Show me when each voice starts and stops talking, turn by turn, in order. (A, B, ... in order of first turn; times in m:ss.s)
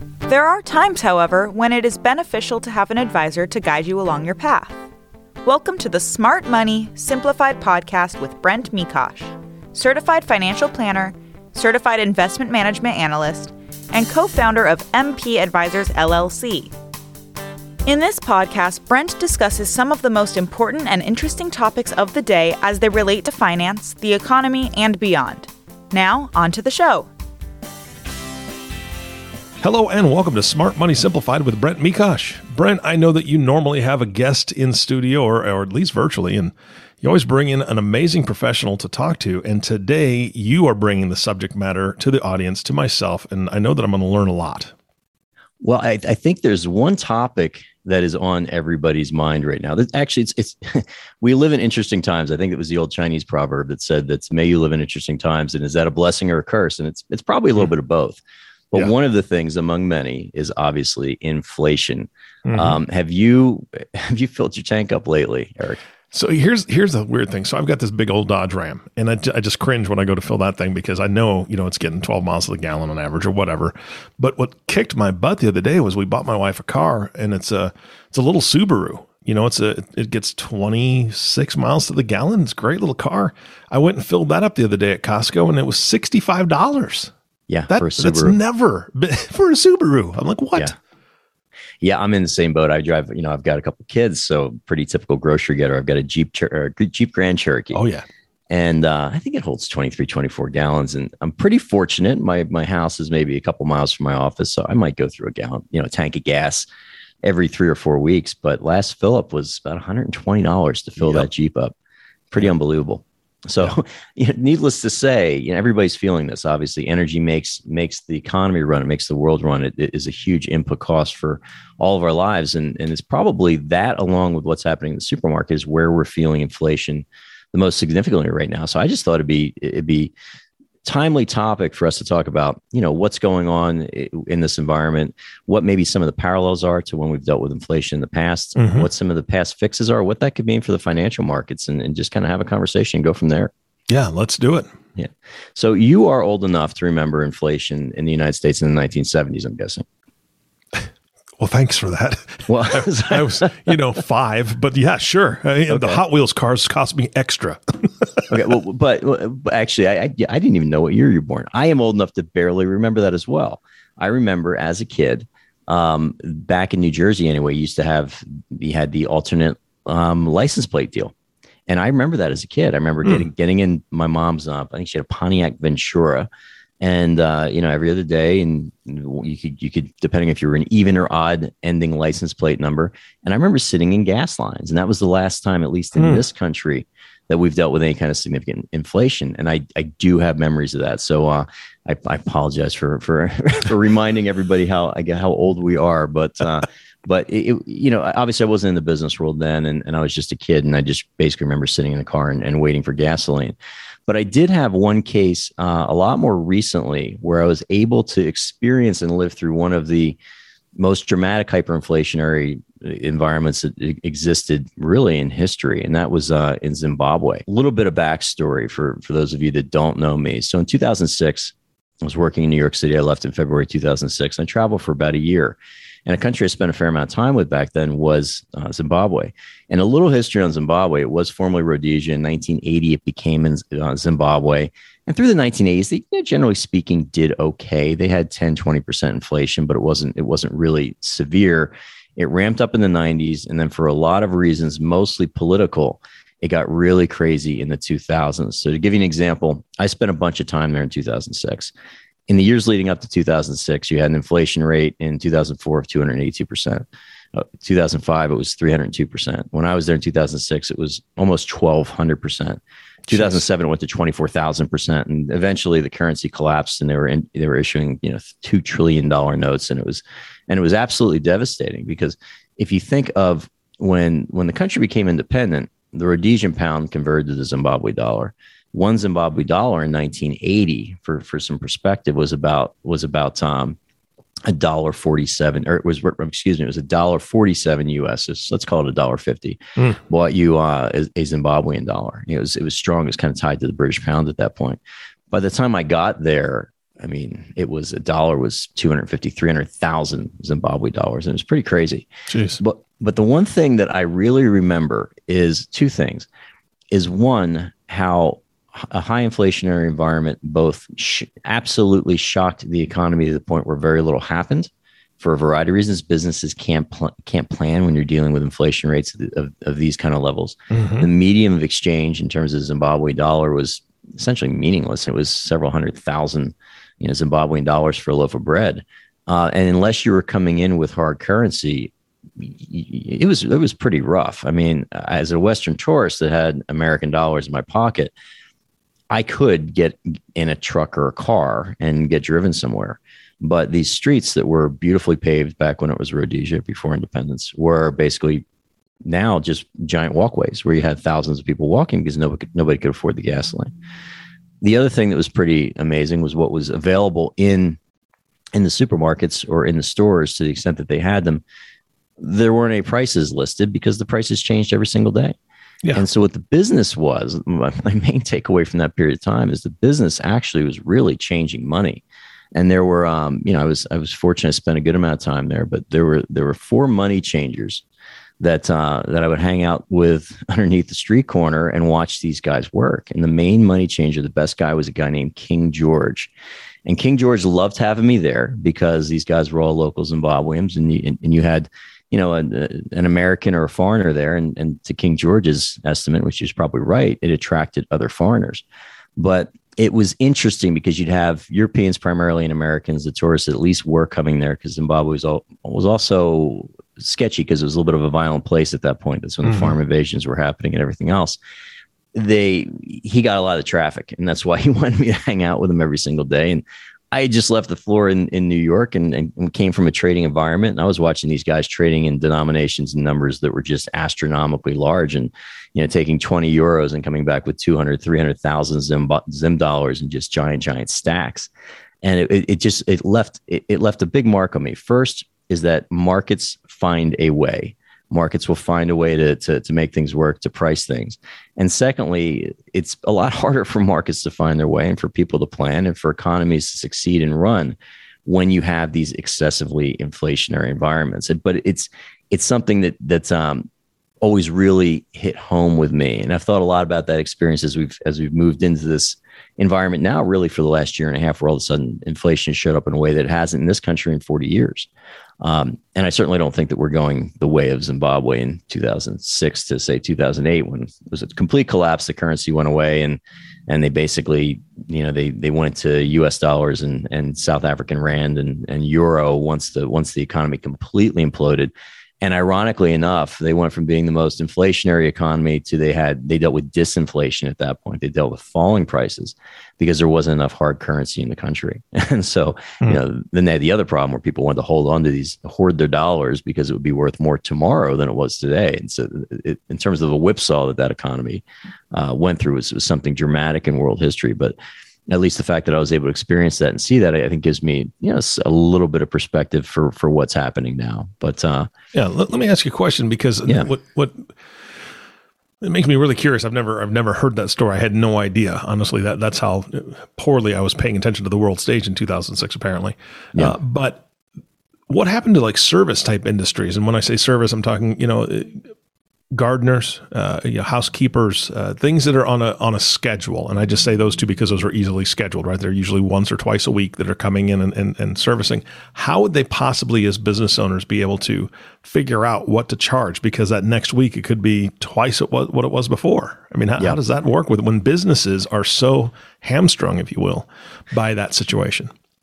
0:00.3-0:04.8 A
0:05.4-0:16.7 A
0:17.9-0:27.1 A
0:29.6-0:44.7 B
0:45.6-1:05.8 C
1:02.4-1:02.8 B
1:06.1-1:27.1 B
1:27.5-1:28.4 C
1:27.7-1:30.8 B
1:31.8-1:37.8 C
1:37.7-1:38.1 B
1:38.5-1:46.7 C
1:47.2-1:51.7 C
1:52.3-2:10.1 C
2:10.8-2:23.5 C
2:18.6-2:18.9 B
2:23.9-2:24.7 B
2:25.0-2:29.8 C
2:31.4-2:38.2 B
2:32.5-2:33.7 C
2:35.7-2:36.0 C
2:38.3-2:51.1 C
2:51.7-2:56.3 C
2:56.8-3:23.6 C
3:06.0-3:06.2 B
3:24.1-3:30.2 C
3:30.8-4:11.7 C
4:12.3-4:43.8 C
4:23.0-4:23.4 B
4:44.5-4:54.8 C
4:55.3-5:02.1 C
5:02.3-5:02.6 B
5:02.6-5:06.3 C
5:06.9-5:38.1 C
5:20.7-5:21.1 B
5:39.1-5:48.4 C
5:49.1-5:53.7 C
5:54.6-5:57.8 C
5:58.6-6:01.4 C
6:02.2-6:05.4 C
6:05.9-6:12.0 C
6:12.6-6:17.8 C
6:18.4-6:26.3 C
6:26.9-6:38.6 C
6:39.2-6:51.4 C
6:49.4-6:49.8 B
6:52.1-7:11.5 C
7:12.0-7:33.7 C
7:34.2-7:44.9 C
7:45.4-8:24.6 C
8:25.1-8:31.7 C
8:31.9-8:34.4 B
8:35.6-8:44.0 B
8:44.9-8:48.7 B
8:49.3-9:11.9 B